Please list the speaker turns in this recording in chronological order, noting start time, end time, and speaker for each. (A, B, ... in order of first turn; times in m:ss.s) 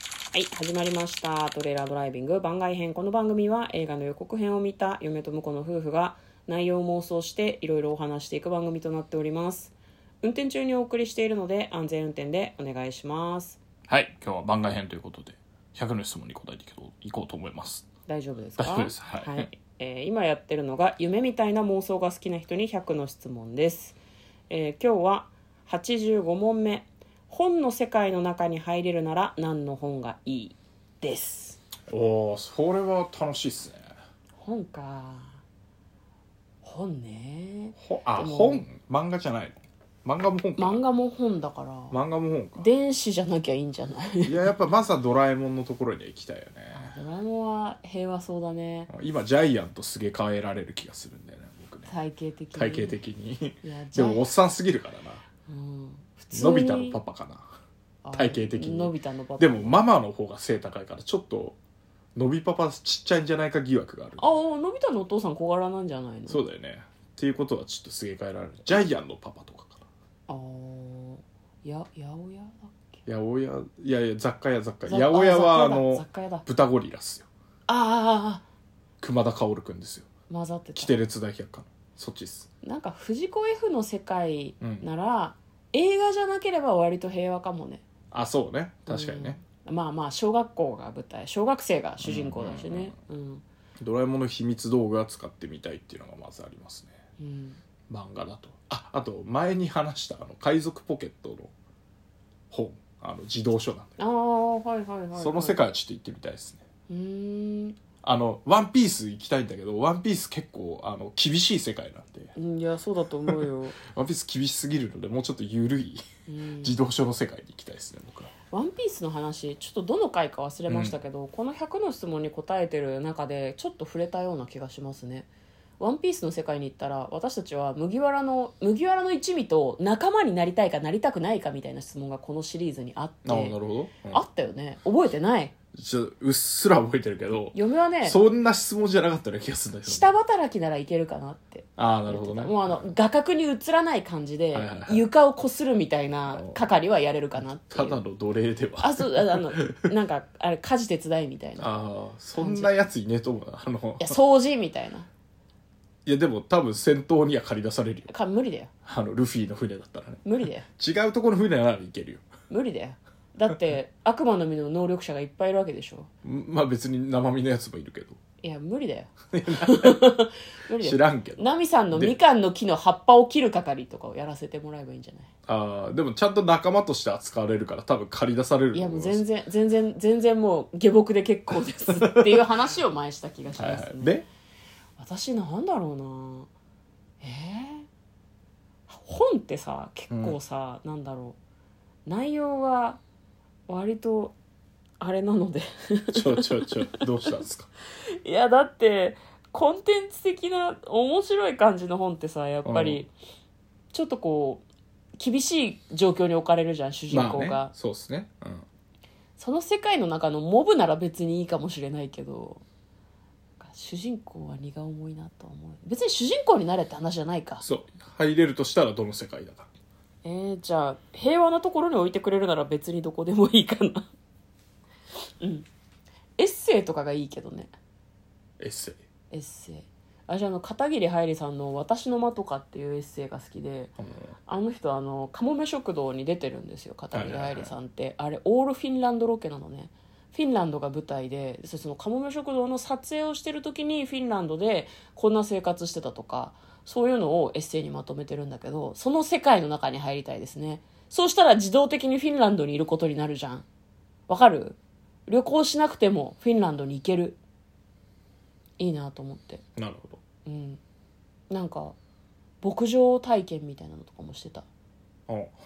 0:00.3-0:13.6 A
0:13.9-0:17.8 B
0:18.1-0:24.0 A
0:18.6-0:19.5 B
0:24.5-0:31.6 A
0:31.9-0:33.9 B
0:34.4-0:35.4 A
0:36.6-0:38.6 A
0:37.8-0:40.8 B
0:40.6-0:42.0 A
0:41.9-0:42.7 B
0:42.6-0:44.4 A
0:44.2-0:47.0 B
0:46.7-0:48.9 A
0:48.9-0:51.9 B
0:51.9-0:53.0 A
0:52.5-0:55.2 B
0:53.6-0:54.2 A
0:55.4-0:57.0 A
0:56.3-0:57.5 B
0:58.0-0:59.8 A
0:58.1-1:01.6 B
1:02.1-1:04.3 B
1:04.2-1:06.4 A
1:06.3-1:09.8 B
1:10.3-1:13.0 A
1:13.0-1:17.3 B
1:14.8-1:16.4 A
1:17.7-1:18.4 A
1:19.0-1:20.1 B
1:20.3-1:20.9 A
1:20.8-1:22.5 B
1:22.6-1:27.8 A
1:24.6-1:24.9 B
1:28.1-1:29.4 B
1:28.9-1:33.4 A
1:32.0-1:32.9 B
1:33.8-1:36.9 B
1:37.2-1:37.6 A
1:37.9-1:41.5 B
1:42.5-1:44.0 B
1:44.0-1:45.6 A
1:45.1-1:46.6 B
1:46.9-1:47.8 A
1:48.0-1:52.3 B
1:52.3-1:53.8 A
1:53.3-1:56.0 B
1:56.3-1:56.8 A
1:56.6-1:58.3 B
1:58.5-2:05.3 A
2:00.7-2:01.0 B
2:05.8-2:13.6 A
2:13.2-2:14.2 B
2:14.1-2:15.5 A
2:15.7-2:20.1 B
2:17.5-2:18.2 A
2:19.8-2:28.0 A
2:21.8-2:22.9 B
2:24.5-2:25.1 B
2:26.3-2:26.6 B
2:27.7-2:29.8 B
2:28.8-2:31.7 A
2:31.6-2:34.2 B
2:32.3-2:32.7 A
2:34.0-2:35.1 A
2:36.0-2:38.1 B
2:38.1-2:38.7 A
2:38.8-2:42.2 B
2:40.2-2:40.6 A
2:42.5-2:46.1 A
2:46.2-2:48.2 B
2:48.4-2:55.3 A
2:49.3-2:50.0 B
2:50.8-2:52.2 B
2:55.4-2:59.2 B
2:58.7-3:04.2 A
3:02.0-3:02.4 B
3:03.5-3:04.2 B
3:05.0-3:06.5 A
3:07.2-3:07.9 A
3:08.9-3:11.4 A
3:10.1-3:10.4 B
3:12.0-3:13.0 A
3:13.7-3:14.3 A
3:15.0-3:17.0 A
3:16.1-3:17.7 B
3:18.2-3:23.1 A
3:22.6-3:23.0 B
3:23.9-3:24.6 A
3:25.2-3:27.7 A
3:27.1-3:28.6 B
3:29.4-3:32.6 A
3:33.6-3:37.6 A
3:37.6-3:39.7 B
3:40.2-3:44.1 A
3:45.4-3:45.6 A
3:46.4-3:47.7 A
3:48.6-3:49.0 B
3:49.3-3:53.9 A
3:54.0-3:54.3 B
3:54.5-4:13.6 A
3:57.1-3:57.7 B
4:14.3-4:17.4 A
4:18.8-4:19.6 A
4:19.8-4:20.2 B
4:20.4-4:20.8 A
4:21.5-4:21.9 A
4:22.6-4:24.6 A
4:25.3-4:25.6 B